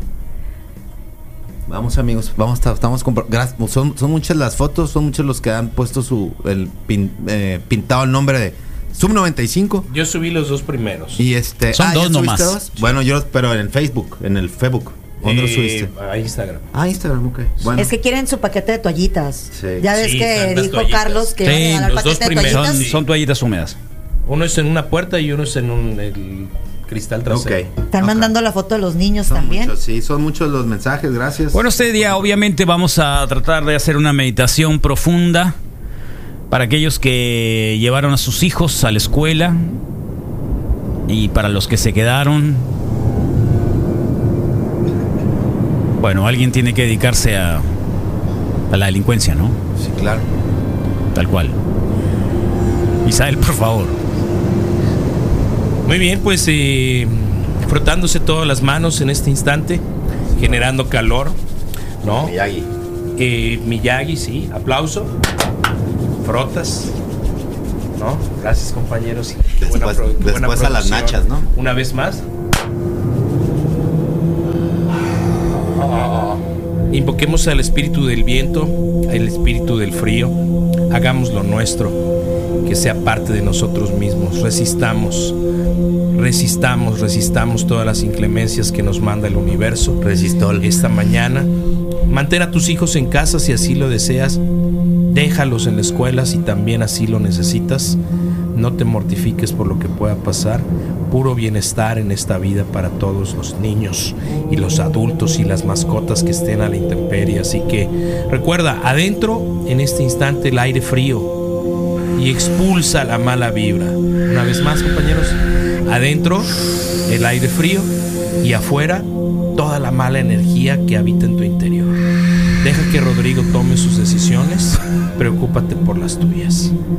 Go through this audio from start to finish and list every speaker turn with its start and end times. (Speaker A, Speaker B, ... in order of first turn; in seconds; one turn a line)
Speaker A: 1.7-9.8
Speaker B: 9.9-11.2
Speaker A: 11.2-15.9
Speaker C: 11.7-12.6
Speaker B: 15.2-16.6
Speaker A: 16.7-17.9
Speaker B: 17.6-17.9
Speaker D: 17.8-22.9
Speaker A: 19.5-19.8
Speaker B: 19.9-23.0
Speaker C: 21.4-23.8
Speaker B: 24.2-27.6
Speaker A: 27.2-28.3
Speaker D: 27.9-29.7
Speaker A: 29.2-32.2
Speaker C: 31.5-35.5
Speaker C: 36.5-39.8
Speaker C: 41.1-42.7
Speaker C: 46.0-47.7
Speaker C: 48.7-49.6
Speaker A: 49.8-50.2
Speaker C: 51.1-51.5
Speaker C: 53.0-54.0
Speaker B: 55.9-59.8
Speaker A: 60.3-60.6
Speaker B: 60.4-61.4
Speaker B: 62.0-62.3
Speaker A: 62.0-62.7
Speaker B: 63.2-65.1
Speaker B: 66.2-66.9
Speaker B: 68.0-72.2
Speaker A: 69.6-71.5
Speaker B: 76.9-80.3
Speaker B: 80.9-82.0
Speaker B: 82.6-85.3
Speaker B: 86.1-90.0
Speaker A: 90.0-90.6
Speaker B: 90.6-91.5
Speaker B: 92.1-94.4
Speaker B: 95.1-98.0
Speaker B: 98.5-111.3
Speaker B: 112.2-116.5
Speaker B: 117.1-117.9
Speaker B: 118.4-122.0
Speaker B: 122.6-126.7